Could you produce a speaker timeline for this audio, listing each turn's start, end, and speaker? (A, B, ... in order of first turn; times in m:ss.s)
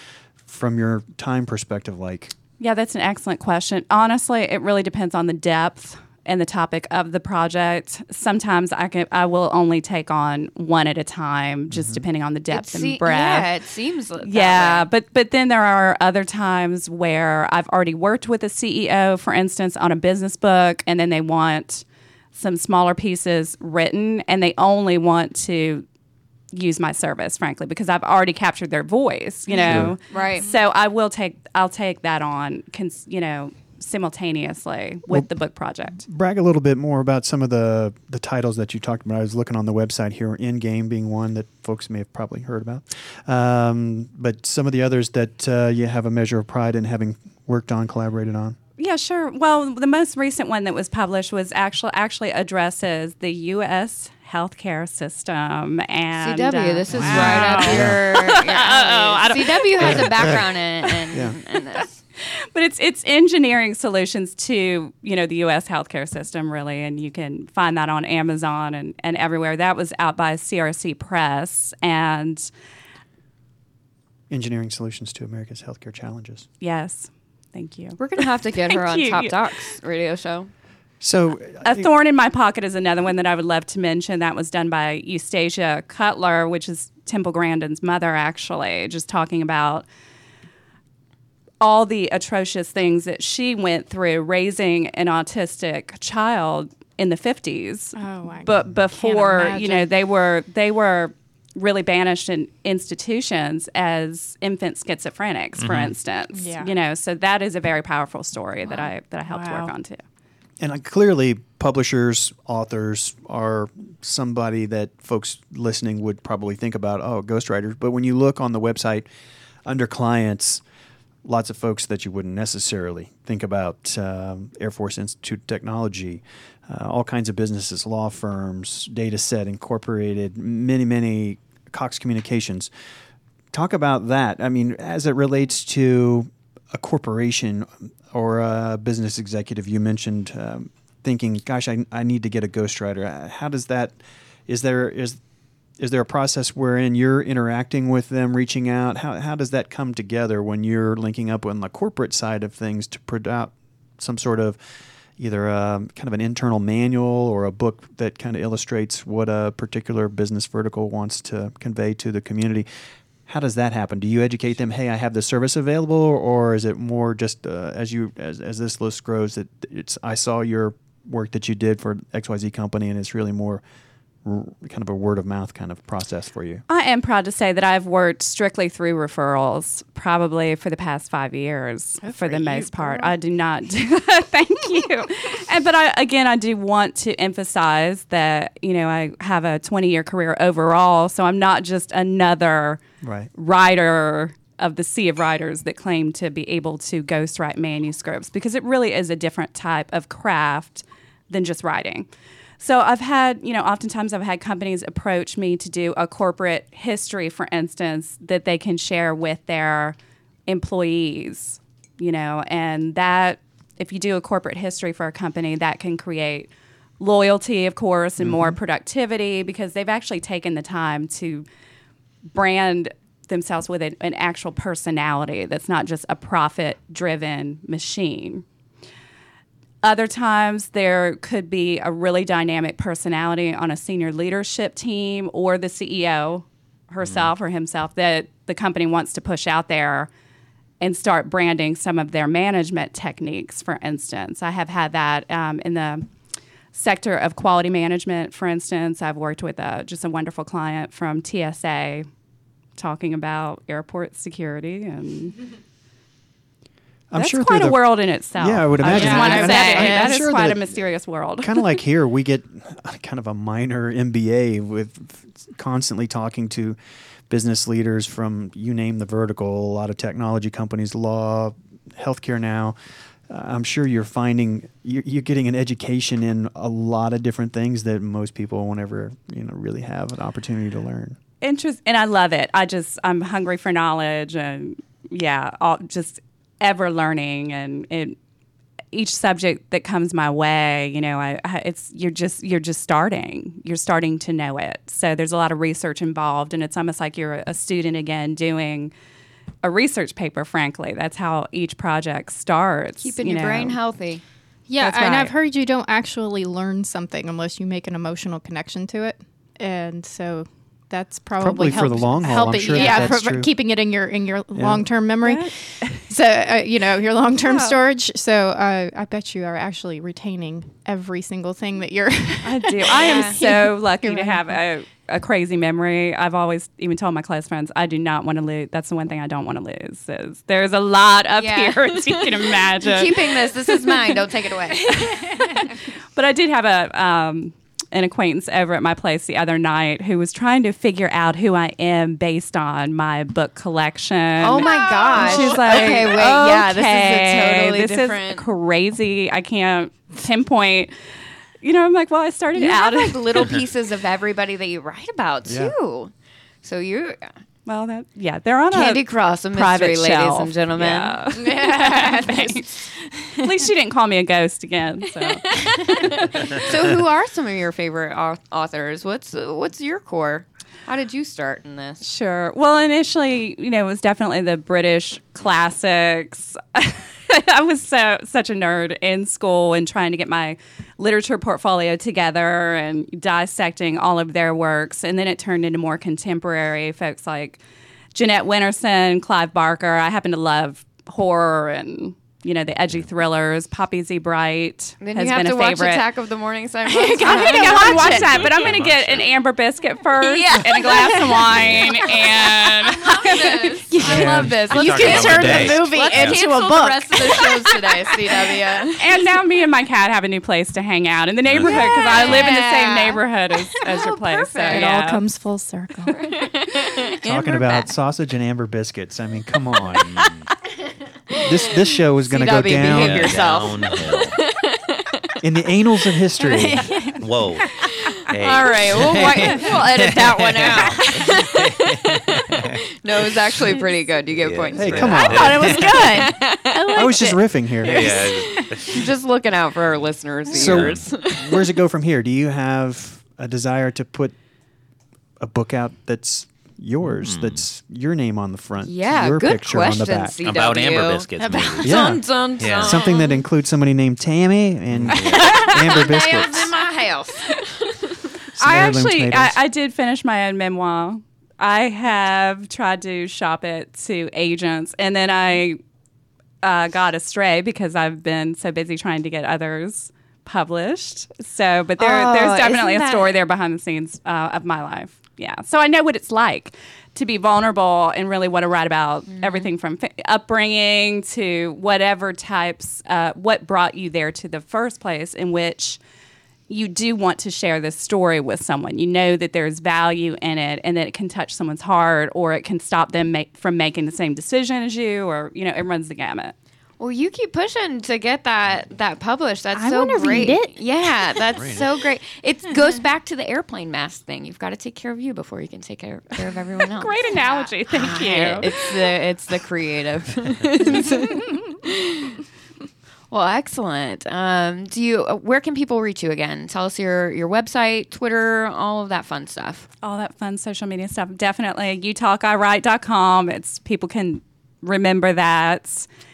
0:00.4-0:02.3 A
0:02.6-0:13.5 B
0:12.5-0:14.8 C
0:14.2-0:25.8 B
0:26.5-0:36.0 B
0:29.5-0:30.5 C
0:29.7-0:29.9 A
0:36.0-0:48.6 A
0:48.8-1:00.4 B
0:56.2-1:02.0 C
0:56.9-0:58.0 A
1:02.5-1:12.4 B
1:14.3-1:16.5 A
1:16.6-1:19.6 B
1:18.0-1:20.5 C
1:21.0-1:21.9 A
1:21.6-1:29.8 B
1:31.6-1:50.0 B
1:38.0-1:39.9 D
1:45.6-1:45.9 E
1:46.3-1:46.7 D
1:48.7-1:49.7 D
1:50.6-1:59.1 A
1:59.6-2:00.6 A
2:01.2-2:12.7 A
2:13.5-2:24.0 A
2:24.5-2:25.2 A
2:25.8-2:34.6 A
2:35.2-2:42.7 A
2:43.3-2:53.6 A
2:54.2-2:56.6 A
2:56.7-3:12.8 B
3:02.0-3:03.2 D
3:13.0-3:13.3 A
3:13.3-3:22.1 B
3:22.6-3:41.4 B
3:38.2-3:38.6 A
3:42.3-3:48.4 B
3:49.8-4:00.1 B
3:57.0-3:57.3 E
4:00.8-4:06.1 B
4:06.7-4:12.1 B
4:12.8-4:15.4 B
4:17.1-4:20.8 A
4:17.2-4:21.8 B
4:18.8-4:20.2 D
4:21.4-4:26.8 A
4:27.3-4:32.8 A
4:33.3-4:41.2 A
4:41.4-4:48.2 B
4:48.9-4:58.9 B
4:59.6-5:03.8 B
5:03.0-5:04.2 C
5:04.7-5:24.6 D
5:04.8-5:05.3 B
5:11.4-5:13.5 A
5:12.7-5:13.1 B
5:14.5-5:14.8 A
5:15.2-5:16.0 B
5:17.4-5:17.8 C
5:22.4-5:34.2 B
5:22.9-5:23.4 C
5:31.4-5:35.3 C
5:34.8-5:50.9 B
5:44.4-5:48.5 C
5:44.7-5:45.4 D
5:51.6-5:53.6 B
5:52.5-5:56.1 C
5:55.4-5:55.7 A
5:56.6-5:57.3 C
5:57.6-6:02.7 B
5:58.7-6:01.3 C
6:01.3-6:03.6 D
6:03.4-6:05.4 B
6:05.4-6:12.0 C
6:12.0-6:27.6 B
6:28.1-6:36.0 B
6:35.0-6:38.6 C
6:36.9-6:43.8 B
6:37.2-6:38.3 D
6:37.7-6:39.3 E
6:40.2-6:49.0 C
6:40.8-6:41.1 D
6:41.2-6:42.0 E
6:43.9-6:48.1 D
6:44.0-6:44.5 A
6:44.5-6:46.4 E
6:47.2-6:47.5 E
6:49.0-6:55.2 B
6:51.4-6:52.5 E
6:51.6-6:53.2 C
6:53.7-6:54.9 C
6:54.6-6:56.2 D
6:56.1-6:57.8 C
6:57.2-7:00.1 A
6:59.9-7:00.5 E
7:01.4-7:03.4 A
7:02.2-7:05.3 C
7:02.7-7:04.4 E
7:05.4-7:06.9 A
7:06.4-7:07.2 D
7:07.1-7:13.7 E
7:07.8-7:17.2 C
7:14.3-7:16.2 E
7:14.7-7:15.8 A
7:15.1-7:18.7 D
7:16.9-7:18.2 A
7:17.8-7:19.1 E
7:18.0-7:21.6 C
7:20.5-7:21.0 E
7:20.5-7:24.3 A
7:25.4-7:30.4 A
7:27.1-7:27.6 E
7:28.8-7:33.4 C
7:30.4-7:33.1 E
7:31.4-7:31.8 D
7:31.8-7:32.2 A
7:32.8-7:36.7 A
7:34.9-7:35.7 E
7:35.5-7:38.3 C
7:38.5-7:39.5 A
7:38.6-7:45.8 B
7:46.6-8:06.0 B
7:52.0-7:53.4 C
7:59.3-7:59.7 C
8:06.7-8:16.5 B
8:17.0-8:32.4 C
8:19.7-8:21.4 D
8:21.5-8:21.9 E
8:26.9-8:28.9 B
8:33.3-8:39.9 C
8:40.0-8:46.1 B